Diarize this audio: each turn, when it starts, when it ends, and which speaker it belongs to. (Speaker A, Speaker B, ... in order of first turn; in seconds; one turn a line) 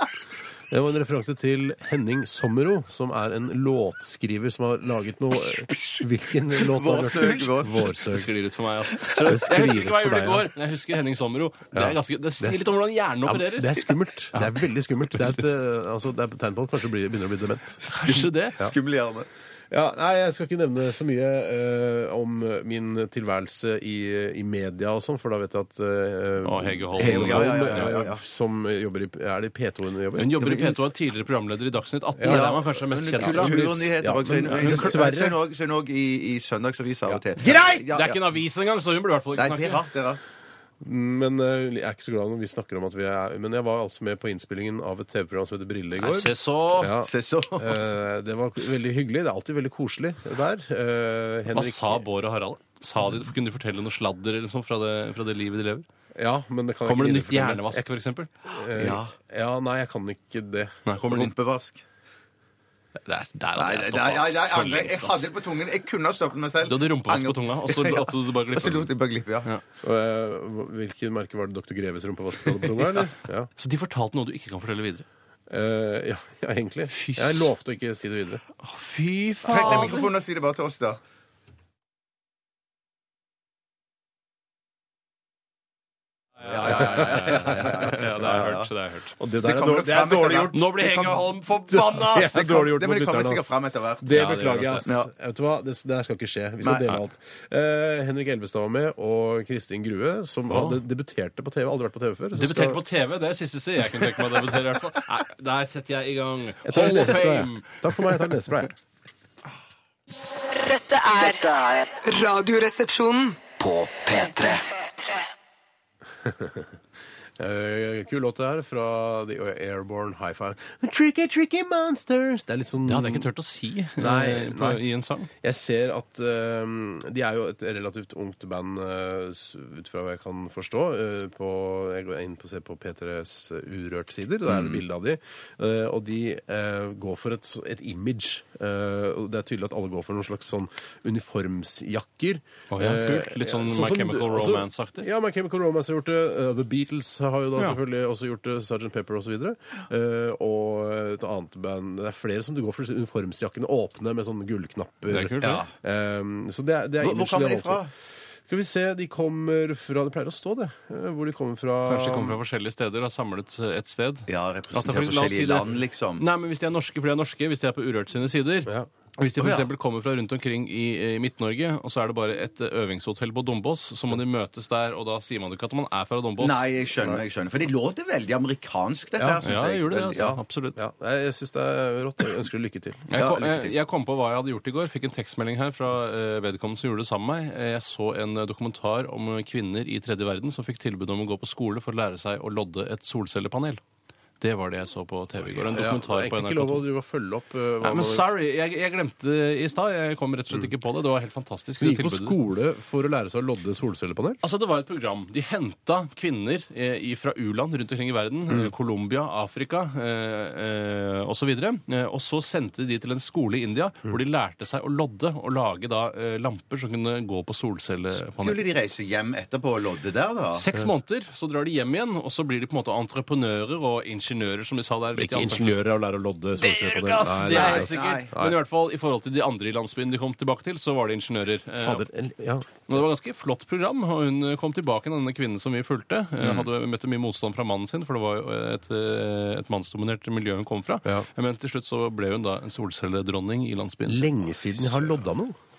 Speaker A: 0.7-8.3
Speaker B: 5.5-8.0
Speaker C: 7.7-13.8
Speaker A: 9.2-10.5
Speaker A: 11.7-12.7
Speaker A: 13.2-17.9
Speaker B: 17.9-19.3
Speaker C: 17.9-18.6
Speaker A: 19.7-30.4
Speaker C: 26.4-27.9
Speaker B: 27.0-28.2
Speaker C: 30.2-33.7
Speaker B: 30.4-30.8
Speaker A: 32.2-32.5
Speaker B: 32.2-38.2
Speaker A: 33.2-35.4
Speaker C: 34.4-35.0
Speaker A: 37.1-37.7
Speaker C: 37.4-39.8
Speaker B: 39.4-40.2
Speaker A: 40.8-52.0
Speaker C: 46.0-47.0
Speaker B: 47.0-47.8
Speaker C: 51.5-55.9
Speaker A: 56.1-57.9
Speaker C: 56.9-58.4
Speaker A: 58.5-60.8
Speaker B: 58.7-59.1
Speaker C: 60.9-61.3
Speaker B: 61.1-61.8
Speaker C: 63.0-65.3
Speaker B: 63.6-69.5
Speaker C: 66.7-68.9
Speaker A: 69.8-73.5
Speaker C: 73.6-75.0
Speaker A: 75.5-78.4
Speaker C: 76.9-77.5
Speaker C: 78.6-80.1
Speaker B: 79.5-81.0
Speaker C: 86.4-89.2
Speaker A: 86.5-88.5
Speaker B: 87.3-88.7
Speaker A: 89.2-90.7
Speaker B: 89.4-91.3
Speaker C: 90.5-92.4
Speaker A: 91.7-102.8
Speaker B: 92.1-95.1
Speaker C: 94.1-94.8
Speaker B: 96.6-97.0
Speaker C: 100.5-100.8
Speaker C: 102.3-108.2
Speaker A: 106.7-108.7
Speaker D: 110.4-113.4
Speaker E: 111.2-111.9
Speaker E: 113.6-115.2
Speaker A: 116.2-116.7
Speaker A: 117.4-123.3
Speaker C: 122.8-125.3
Speaker A: 124.0-157.8
Speaker C: 142.7-145.1
Speaker C: 155.1-155.7
Speaker B: 155.4-155.7
Speaker B: 157.0-157.9
Speaker A: 158.5-162.4
Speaker C: 161.8-176.7
Speaker B: 164.3-166.3
Speaker B: 169.4-169.7
Speaker B: 176.4-180.3
Speaker A: 179.2-179.5
Speaker C: 179.4-180.8
Speaker A: 180.1-183.1
Speaker C: 183.1-193.8
Speaker B: 183.1-183.8
Speaker C: 194.4-196.9
Speaker A: 195.6-198.3
Speaker C: 197.8-202.4
Speaker A: 201.8-204.4
Speaker C: 204.4-218.6
Speaker B: 218.4-220.7
Speaker C: 220.5-225.8
Speaker A: 225.1-228.6
Speaker C: 226.6-232.1
Speaker B: 227.5-228.3
Speaker A: 231.8-232.7
Speaker C: 232.9-244.3
Speaker A: 244.1-245.6